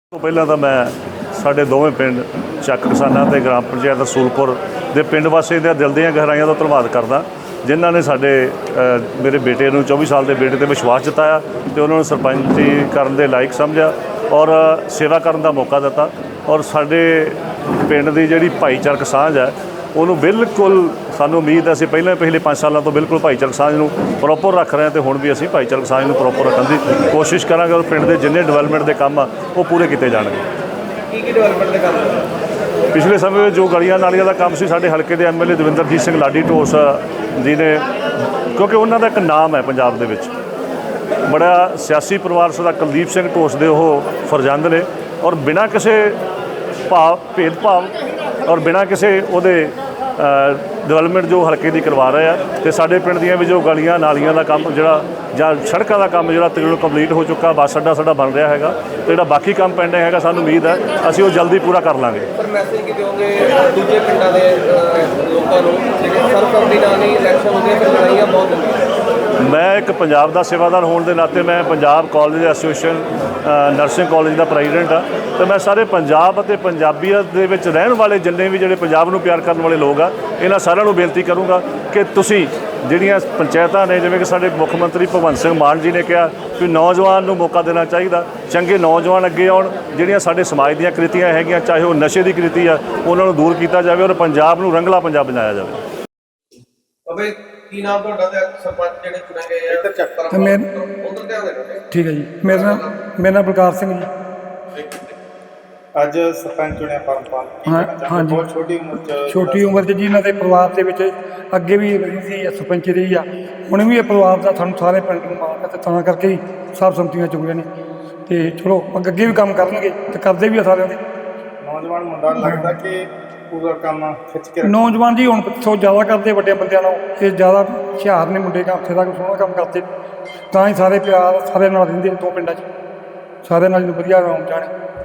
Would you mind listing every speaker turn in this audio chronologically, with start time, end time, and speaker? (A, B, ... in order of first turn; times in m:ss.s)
0:00.1-0:30.4 A
0:31.1-0:32.3 B
0:32.9-0:37.8 A
0:38.5-0:40.3 A
0:41.2-0:46.2 A
0:46.9-0:47.9 A
0:48.4-1:02.3 A
1:02.4-1:08.9 B
1:09.4-1:35.8 A
1:37.1-1:41.8 B
1:39.7-1:40.2 C
1:40.3-1:40.7 D
1:41.9-1:44.1 D
1:42.5-1:43.0 B
1:44.8-1:45.1 B
1:46.0-1:49.9 C
1:47.7-1:48.5 D
1:49.3-1:57.7 D
1:58.3-2:01.0 D
2:01.6-2:04.9 C
2:02.4-2:02.7 D
2:04.6-2:09.9 D
2:10.5-2:12.6 D
2:13.4-2:14.7 D